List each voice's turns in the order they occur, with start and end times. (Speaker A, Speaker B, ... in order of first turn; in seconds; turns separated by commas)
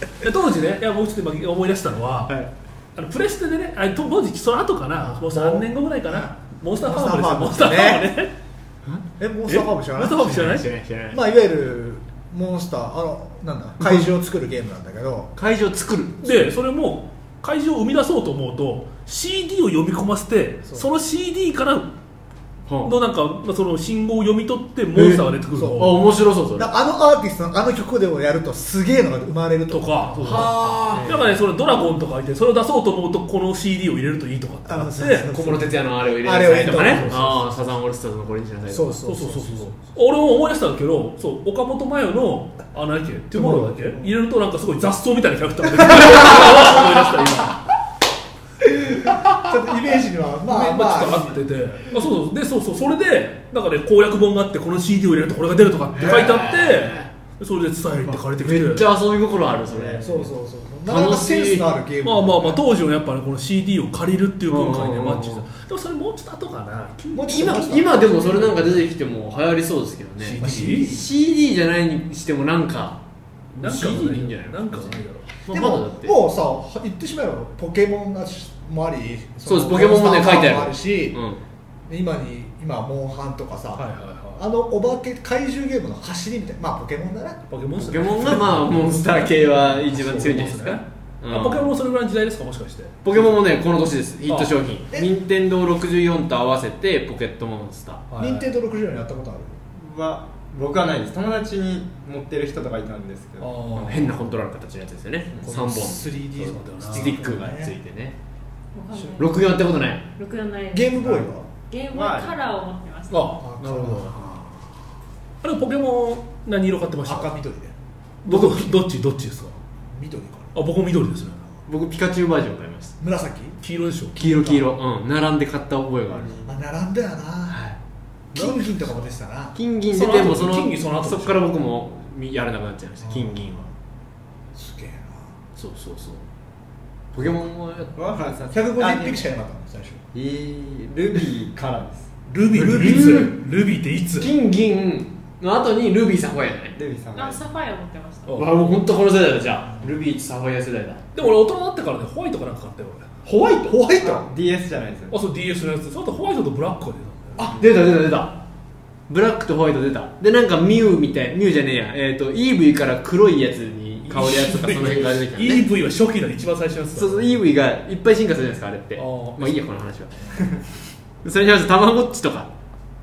Speaker A: 0.2-2.3, Speaker A: 3.0-8.3, Speaker B: 5.0-8.1, Speaker B: 9.2-10.6, Speaker A: 9.5-10.7, Speaker C: 10.2-11.2, Speaker B: 11.1-15.3, Speaker C: 13.8-14.1, Speaker C: 15.3-16.5, Speaker A: 16.2-21.9, Speaker C: 22.7-22.9, Speaker A: 22.8-26.0, Speaker C: 24.9-26.7, Speaker B: 25.5-26.0, Speaker B: 26.5-31.2, Speaker A: 29.7-35.3, Speaker C: 30.2-31.2, Speaker B: 34.6-37.4, Speaker C: 35.3-39.0, Speaker A: 36.7-37.5, Speaker B: 38.7-39.8, Speaker A: 39.0-47.6, Speaker B: 43.3-44.1, Speaker B: 45.8-46.9, Speaker B: 48.8-51.4, Speaker A: 50.5-58.9, Speaker C: 55.9-57.1, Speaker B: 56.0-56.3, Speaker C: 58.4-60.3, Speaker A: 59.7-60.1, Speaker B: 60.0-62.6, Speaker C: 60.9-61.7, Speaker A: 62.0-67.6, Speaker C: 64.5-65.5, Speaker B: 67.1-68.8, Speaker C: 67.3-73.0, Speaker A: 70.2-71.0, Speaker B: 70.4-71.0, Speaker A: 73.6-75.5, Speaker C: 73.6-76.2, Speaker B: 75.5-81.2, Speaker C: 79.5-81.4, Speaker B: 81.8-87.4, Speaker A: 83.8-84.5, Speaker A: 87.5-93.3, Speaker C: 87.8-91.7, Speaker C: 93.0-98.0, Speaker A: 94.3-94.6, Speaker A: 98.1-98.5, Speaker B: 98.2-99.6, Speaker D: 99.7-103.7, Speaker A: 103.4-104.2, Speaker C: 103.8-106.2, Speaker B: 105.4-107.7, Speaker A: 105.7-107.2, Speaker C: 106.9-108.2, Speaker E: 108.7-109.5, Speaker B: 108.9-109.2, Speaker C: 109.2-110.0, Speaker E: 110.2-111.1, Speaker B: 110.7-111.5, Speaker E: 111.7-113.3, Speaker D: 111.9-112.4, Speaker A: 113.1-114.4, Speaker B: 113.3-114.4, Speaker A: 115.4-117.3, Speaker B: 117.0-117.7, Speaker A: 118.2-119.6, Speaker C: 118.3-118.7, Speaker B: 119.9-120.6, Speaker A: 120.5-121.5, Speaker C: 121.7-122.9, Speaker B: 123.0-123.6, Speaker A: 123.6-124.6, Speaker C: 124.2-126.4, Speaker B: 126.4-127.6, Speaker C: 127.5-127.8, Speaker A: 128.3-129.1, Speaker B: 128.3-129.6, Speaker C: 129.5-133.7, Speaker A: 129.9-131.4, Speaker B: 133.0-133.7, Speaker B: 134.5-135.3, Speaker C: 135.6-136.3, Speaker C: 137.1-137.9, Speaker D: 137.9-139.2, Speaker B: 138.5-140.0, Speaker D: 140.1-142.1, Speaker A: 142.3-144.3, Speaker C: 142.5-143.4, Speaker B: 142.6-143.2, Speaker C: 144.2-146.8, Speaker D: 146.8-147.5, Speaker E: 147.1-148.4, Speaker A: 148.3-148.5, Speaker C: 148.3-151.0, Speaker B: 149.7-150.0, Speaker A: 151.1-153.1, Speaker C: 153.2-153.8, Speaker B: 153.6-154.3, Speaker D: 154.0-155.2, Speaker A: 155.1-157.4, Speaker C: 157.5-158.4, Speaker C: 159.1-165.7, Speaker A: 164.1-167.4, Speaker C: 166.9-170.6, Speaker A: 168.9-169.6, Speaker C: 171.2-172.5